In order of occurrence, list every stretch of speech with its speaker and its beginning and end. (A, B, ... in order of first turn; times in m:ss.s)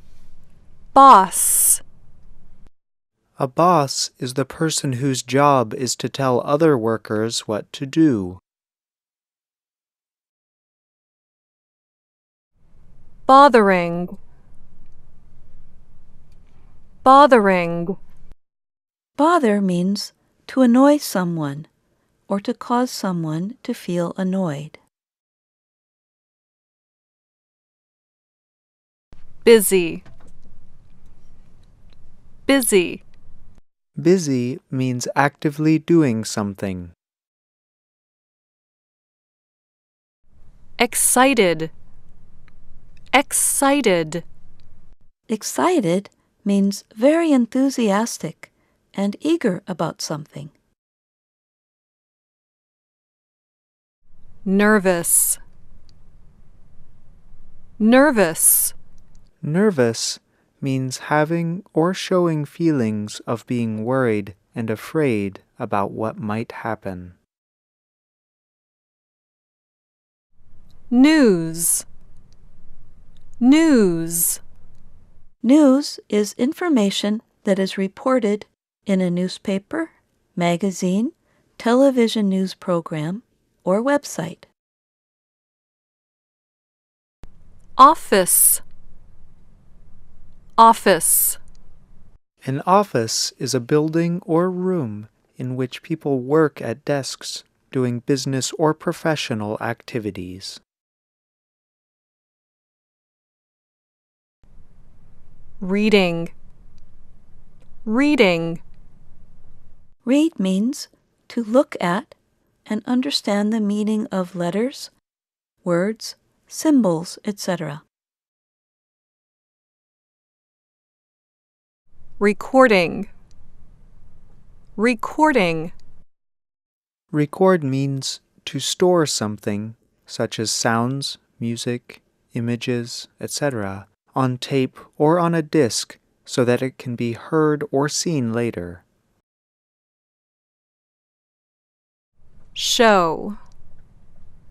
0:00.9-0:01.8 A
0:03.4-0:08.4 B
0:13.3-0:14.2 A
0:17.0-0:18.0 A
0:19.2-0:21.7 C
0:22.3-0:24.8 C
0:29.4-0:30.0 A
0:32.5-0:33.0 A
0:34.0-0:36.9 B
0:40.8-0:41.7 A
0:43.1-0:44.2 A
0:45.3-0:50.5 C
0:54.4-0:55.4 A
0:57.8-0:58.8 A
0:59.4-1:07.2 B
1:10.9-1:11.9 A
1:13.4-1:14.4 A
1:15.4-1:24.5 C
1:27.8-1:28.6 A
1:30.6-1:31.4 A
1:32.4-1:40.6 B
1:45.6-1:46.3 A
1:47.8-1:48.6 A
1:50.0-1:54.9 C
1:55.6-1:57.8 C
2:02.2-2:03.1 A
2:04.8-2:05.7 A
2:07.1-2:18.8 B
2:22.6-2:23.4 A